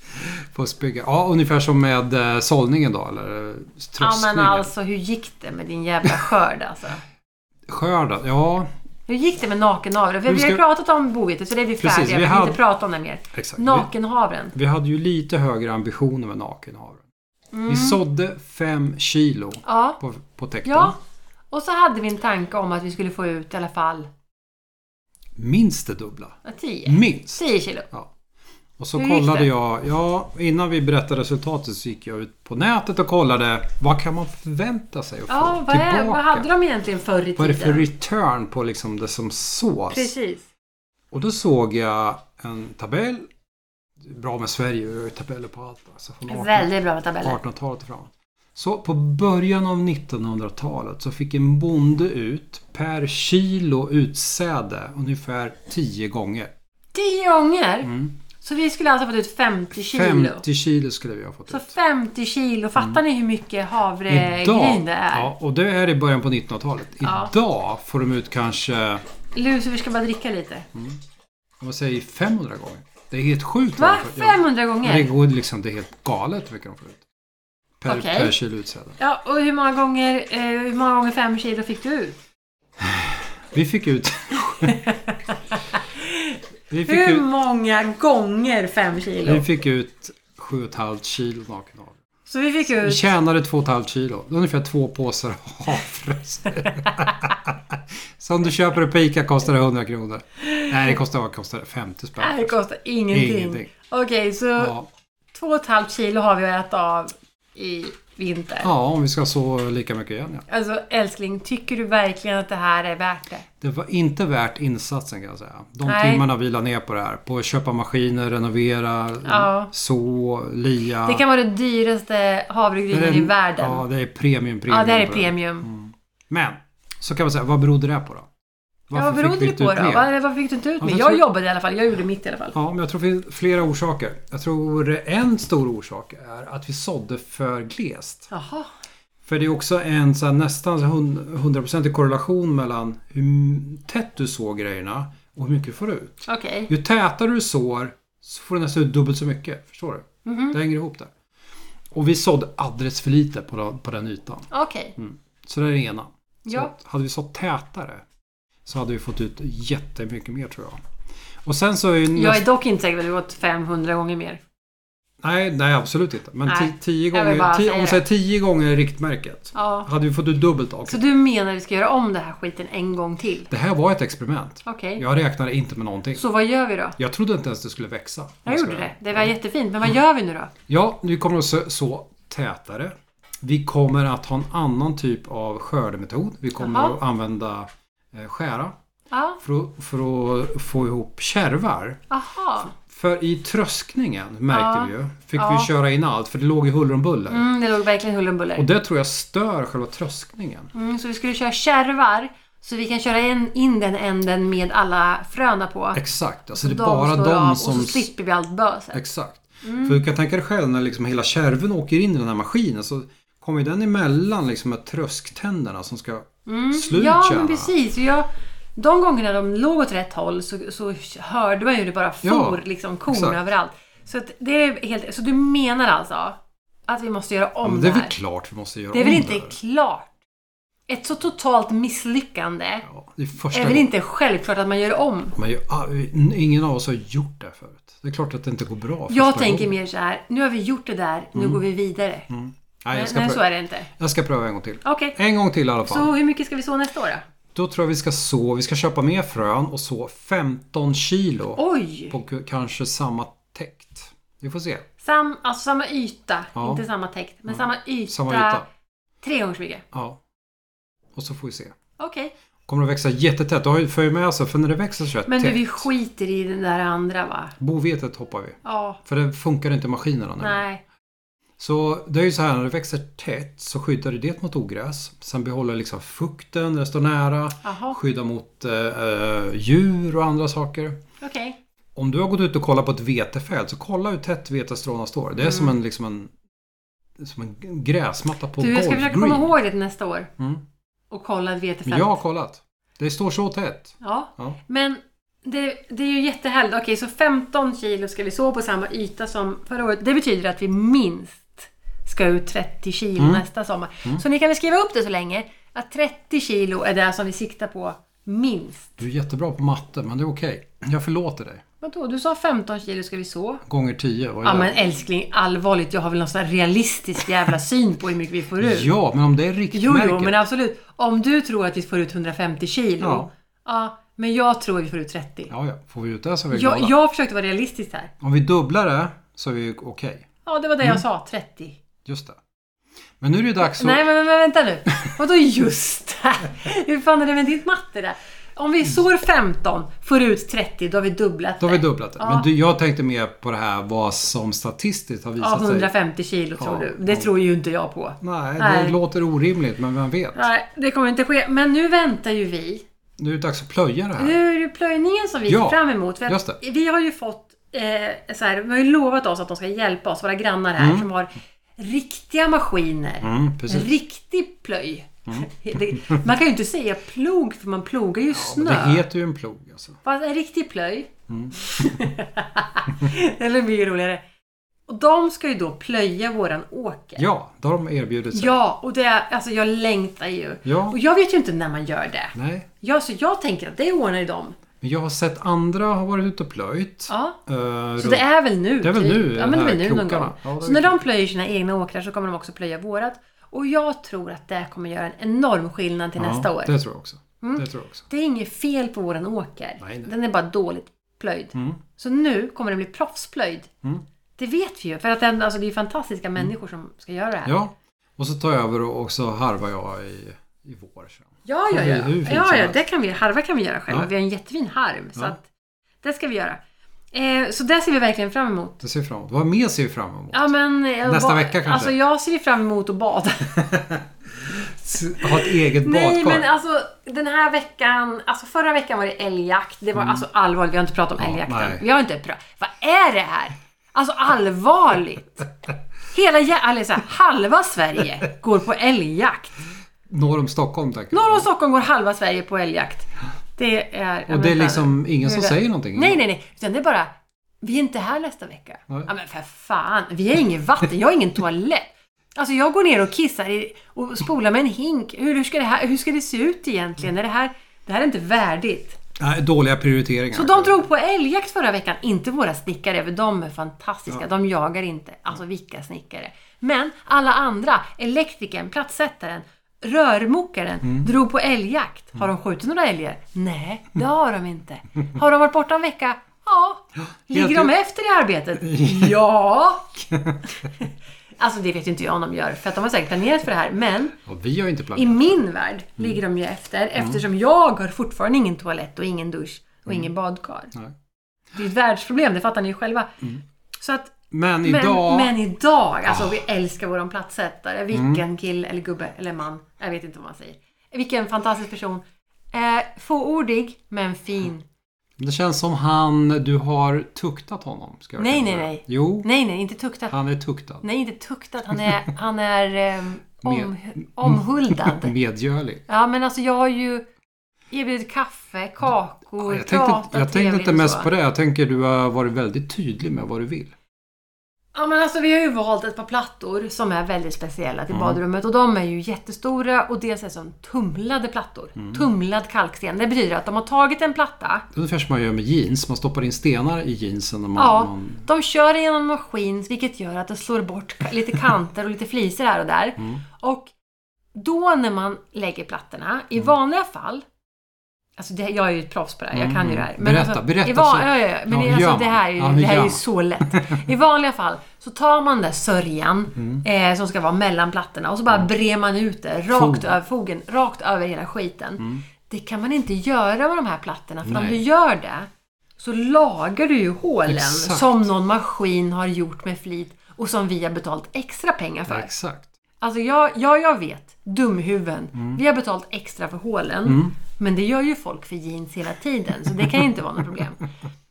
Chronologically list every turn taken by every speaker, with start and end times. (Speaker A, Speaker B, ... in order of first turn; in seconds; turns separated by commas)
Speaker A: 0.1-4.7, Speaker B: 4.0-7.0, Speaker A: 7.7-8.7, Speaker B: 9.1-14.5, Speaker A: 10.3-10.6, Speaker A: 11.8-12.6, Speaker A: 13.3-13.9, Speaker A: 14.5-17.0, Speaker B: 17.5-18.0, Speaker A: 17.7-20.9, Speaker B: 19.6-20.0, Speaker B: 20.6-20.9, Speaker B: 21.5-24.1, Speaker A: 25.4-28.1, Speaker B: 26.4-27.9, Speaker A: 28.8-36.5, Speaker B: 28.9-29.5, Speaker B: 35.3-37.9, Speaker A: 37.4-40.1, Speaker B: 39.9-40.4, Speaker A: 41.1-43.3, Speaker A: 44.0-46.7, Speaker B: 46.3-47.4, Speaker A: 47.2-56.5, Speaker B: 56.9-60.4, Speaker A: 57.8-58.1, Speaker A: 59.7-61.7, Speaker B: 61.5-65.3, Speaker A: 64.1-69.0, Speaker B: 67.0-67.3, Speaker B: 69.3-70.7, Speaker A: 70.7-71.0, Speaker A: 71.6-77.0, Speaker B: 73.8-75.1, Speaker A: 77.8-79.0, Speaker B: 77.9-78.3, Speaker B: 79.0-82.2, Speaker A: 82.8-84.8, Speaker B: 84.6-89.5, Speaker A: 86.7-87.2, Speaker A: 89.2-92.0, Speaker B: 92.3-93.1, Speaker A: 92.6-102.5, Speaker B: 96.8-97.1, Speaker B: 100.4-100.9, Speaker B: 102.2-104.7, Speaker A: 103.1-103.7, Speaker A: 104.6-104.9, Speaker B: 105.3-108.7, Speaker A: 108.6-110.5, Speaker B: 110.5-113.4, Speaker A: 113.6-121.2, Speaker B: 115.8-116.2, Speaker B: 119.2-119.7, Speaker B: 121.0-123.8, Speaker A: 122.9-128.3, Speaker B: 124.7-125.7, Speaker A: 128.9-130.1, Speaker B: 128.9-132.6, Speaker A: 130.8-131.2, Speaker A: 132.5-138.3, Speaker B: 138.3-138.7, Speaker A: 139.2-151.1, Speaker B: 146.2-146.7, Speaker B: 150.2-150.6, Speaker A: 151.9-158.0, Speaker B: 154.5-154.9, Speaker B: 156.4-156.7, Speaker A: 158.7-160.8, Speaker A: 161.4-162.4, Speaker B: 162.1-164.4, Speaker A: 165.2-171.0, Speaker B: 166.5-168.0, Speaker B: 169.5-169.9, Speaker B: 170.8-173.5, Speaker A: 173.5-176.2, Speaker B: 174.6-175.0, Speaker B: 176.2-177.0, Speaker A: 177.0-179.3, Speaker B: 178.4-180.5, Speaker A: 180.7-188.7, Speaker B: 186.6-186.9, Speaker B: 189.1-189.4, Speaker A: 189.4-192.0, Speaker B: 192.1-192.7, Speaker A: 192.7-197.5, Speaker B: 194.5-195.7, Speaker B: 197.3-198.7, Speaker A: 198.6-200.7, Speaker B: 200.7-206.0, Speaker A: 205.9-208.1, Speaker B: 206.5-209.0, Speaker A: 208.9-217.7, Speaker B: 209.6-210.0, Speaker B: 216.4-228.1, Speaker A: 222.2-223.4, Speaker A: 227.6-229.6, Speaker B: 228.9-230.1, Speaker B: 230.9-232.8, Speaker A: 232.9-233.9, Speaker B: 233.5-235.4, Speaker A: 235.3-239.7, Speaker B: 239.1-242.3, Speaker A: 241.3-241.6, Speaker A: 242.3-246.1, Speaker B: 242.9-243.9, Speaker B: 244.8-245.1, Speaker B: 245.8-247.2, Speaker A: 247.5-254.8, Speaker B: 251.6-252.2, Speaker B: 255.0-258.6, Speaker A: 256.5-256.8, Speaker A: 257.5-258.6, Speaker B: 259.2-259.8, Speaker A: 259.9-260.2, Speaker A: 261.1-261.7, Speaker B: 262.0-262.3, Speaker A: 262.7-265.9, Speaker B: 265.3-267.5, Speaker A: 267.6-270.6, Speaker B: 268.6-269.0, Speaker B: 270.4-270.8, Speaker A: 271.6-281.0, Speaker B: 277.6-278.0, Speaker B: 281.2-281.6, Speaker A: 281.9-286.3, Speaker B: 285.4-285.7, Speaker A: 287.2-289.5, Speaker B: 288.6-290.3, Speaker B: 291.1-292.2, Speaker A: 291.9-294.6, Speaker B: 294.0-309.0, Speaker A: 303.2-303.4, Speaker A: 309.0-311.6, Speaker B: 311.8-313.6, Speaker A: 313.6-314.8, Speaker B: 314.4-318.9, Speaker A: 318.6-320.4, Speaker B: 319.7-325.5, Speaker A: 323.0-323.3, Speaker A: 325.5-326.9, Speaker B: 326.5-328.1, Speaker A: 328.2-330.3, Speaker B: 330.4-331.8, Speaker A: 332.0-332.4, Speaker A: 333.2-334.0, Speaker B: 333.6-342.5, Speaker A: 341.6-345.9, Speaker B: 345.4-348.9, Speaker A: 346.6-347.3, Speaker A: 348.2-350.4, Speaker B: 350.3-352.8, Speaker A: 353.2-354.4, Speaker B: 354.2-369.1, Speaker A: 355.5-356.6, Speaker A: 360.8-361.1, Speaker A: 363.2-363.9, Speaker A: 365.3-366.2, Speaker A: 368.3-370.0, Speaker B: 370.0-374.2, Speaker A: 371.3-372.1, Speaker B: 374.9-377.2, Speaker A: 377.2-378.6, Speaker B: 378.3-384.6, Speaker A: 380.6-381.0, Speaker A: 382.3-382.7, Speaker A: 384.8-388.2, Speaker B: 387.1-387.4, Speaker B: 388.0-396.7, Speaker A: 388.8-391.0, Speaker A: 396.2-398.1, Speaker B: 397.4-403.7, Speaker A: 399.8-400.1, Speaker A: 401.5-401.8, Speaker B: 404.4-407.5, Speaker A: 407.4-412.8, Speaker B: 411.4-415.4, Speaker B: 416.0-416.6, Speaker B: 417.1-418.8, Speaker A: 418.8-420.5, Speaker B: 420.3-423.6, Speaker A: 421.0-421.9, Speaker A: 423.5-426.5, Speaker B: 425.2-435.5, Speaker A: 429.9-430.2, Speaker A: 431.2-431.8, Speaker B: 436.1-439.6, Speaker A: 440.1-441.5, Speaker B: 441.1-459.0, Speaker A: 444.3-446.2, Speaker A: 459.2-460.8, Speaker B: 460.3-484.2, Speaker A: 470.8-471.1, Speaker A: 477.3-477.7, Speaker A: 478.6-479.2, Speaker A: 480.1-480.4, Speaker A: 484.2-485.4, Speaker B: 484.9-490.7, Speaker B: 491.5-493.2, Speaker B: 493.8-504.6, Speaker A: 494.3-495.3, Speaker A: 496.1-496.4, Speaker A: 497.9-498.2, Speaker A: 505.2-509.3, Speaker B: 508.2-510.1, Speaker A: 510.1-510.8, Speaker B: 510.8-515.1, Speaker A: 511.7-512.0, Speaker A: 513.4-515.8, Speaker B: 515.9-517.0, Speaker B: 517.7-521.1, Speaker A: 519.4-523.7, Speaker B: 524.7-534.6, Speaker A: 527.9-528.2, Speaker A: 531.8-532.1, Speaker A: 534.7-538.2, Speaker B: 537.6-543.7, Speaker B: 544.3-547.2, Speaker B: 548.2-572.1, Speaker A: 549.3-553.9, Speaker A: 556.4-556.6, Speaker A: 559.5-559.9, Speaker A: 564.2-564.6, Speaker A: 567.3-568.0, Speaker A: 571.9-572.5, Speaker B: 572.8-580.6, Speaker A: 576.8-577.1